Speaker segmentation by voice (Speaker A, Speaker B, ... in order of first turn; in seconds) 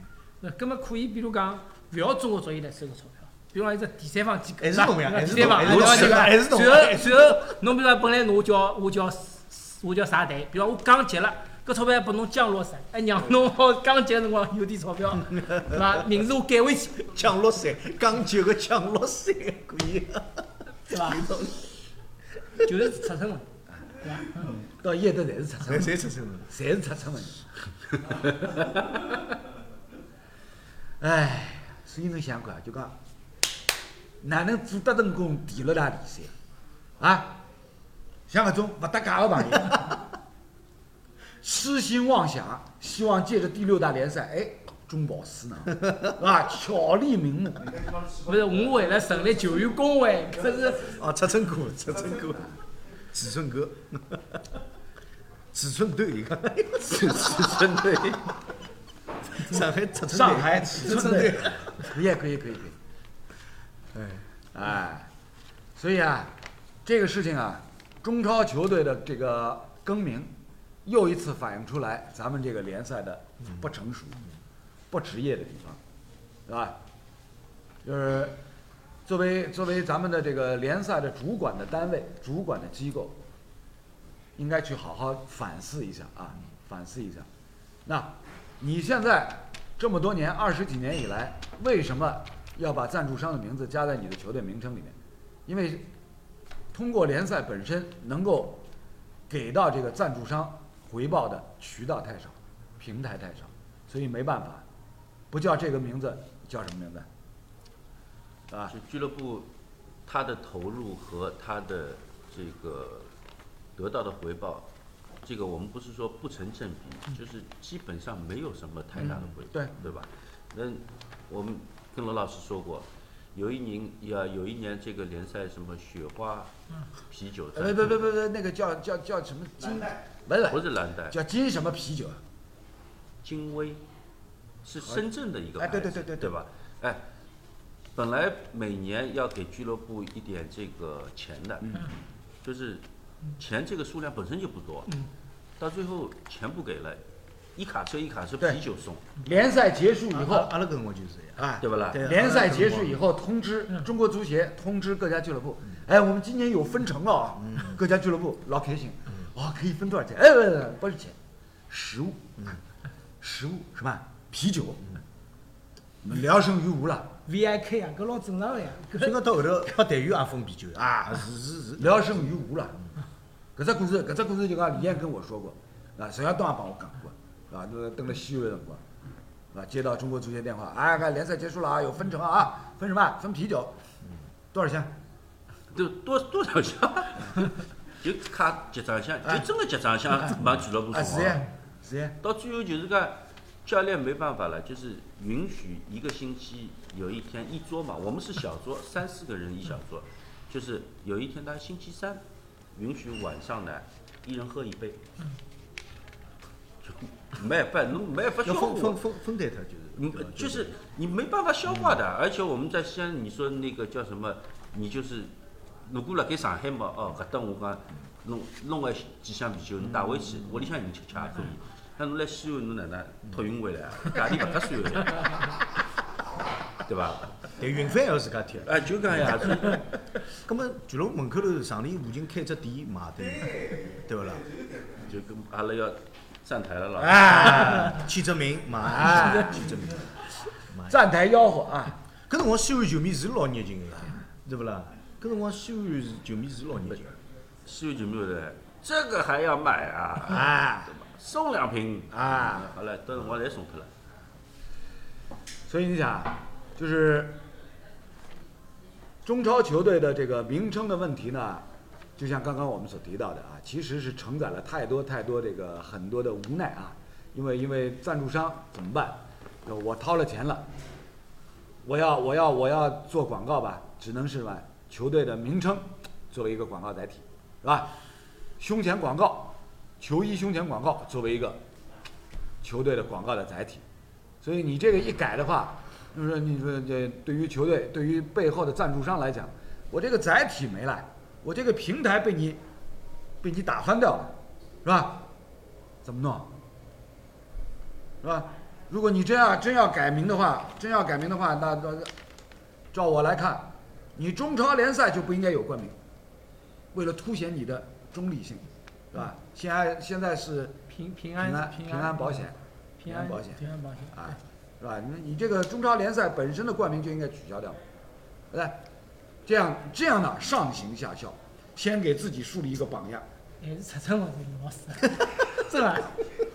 Speaker A: 0.4-17.2, 20.9-21.3, 22.6-23.4, 24.0-24.5, 48.2-51.0, 167.2-169.2, 239.2-239.7, 310.9-314.4, 323.6-326.2
Speaker B: 4.6-7.4, 15.3-15.7, 17.1-21.6, 25.6-26.5, 50.9-52.5, 53.1-54.4, 55.5-57.5, 59.3-61.9, 63.9-64.2, 150.1-153.0, 157.5-157.7, 169.0-172.3, 208.4-210.7, 211.7-212.0, 227.6-228.7, 230.4-234.5, 237.7-240.1, 242.3-247.2
Speaker C: 5.3-6.3, 56.8-58.4, 108.7-109.5, 110.0-113.1, 113.8-114.7, 115.2-126.5, 127.1-128.0, 130.5-131.2, 133.2-133.8, 134.6-137.0, 137.9-141.6, 142.4-142.8, 143.3-144.9, 145.6-147.0, 147.6-149.1, 151.6-152.1, 185.7-191.4, 192.2-202.2, 202.7-205.0, 206.8-209.0, 210.0-215.3, 215.8-225.5, 226.8-227.4, 228.6-229.9, 235.0-237.7, 247.6-253.9
Speaker D: 6.0-6.2, 24.4-27.4, 31.0-32.9, 34.2-36.3, 37.0-37.4, 38.3-40.0, 41.4-47.7, 60.1-62.8, 64.5-65.1, 65.8-66.3, 66.8-70.3, 70.8-74.2, 74.9-75.8, 76.5-76.8, 77.8-78.3, 79.0-83.2, 84.3-87.3, 87.8-94.9, 95.5-95.8, 96.7-98.6, 99.3-104.6, 105.3-107.0, 119.0-119.8, 127.5-132.2, 135.6-136.4, 141.6-141.9, 149.2-150.5, 151.4-161.1, 161.7-162.2, 163.2-164.9, 166.0-167.1, 170.7-171.3, 171.8-172.8, 173.6-178.8, 179.5-183.7, 184.5-184.9, 190.9-192.2, 237.0-238.1, 238.8-239.7, 240.9-242.0, 250.3-250.9, 252.1-252.7, 255.7-257.4, 259.2-261.6, 262.2-270.6, 271.8-277.9, 278.6-281.6, 282.6-283.8, 284.4-292.6, 293.4-295.3, 296.0-296.5, 298.2-302.1, 302.9-305.9, 306.9-310.8, 311.4-312.6, 313.1-313.6, 314.1-317.8, 318.5-318.8, 319.4-323.2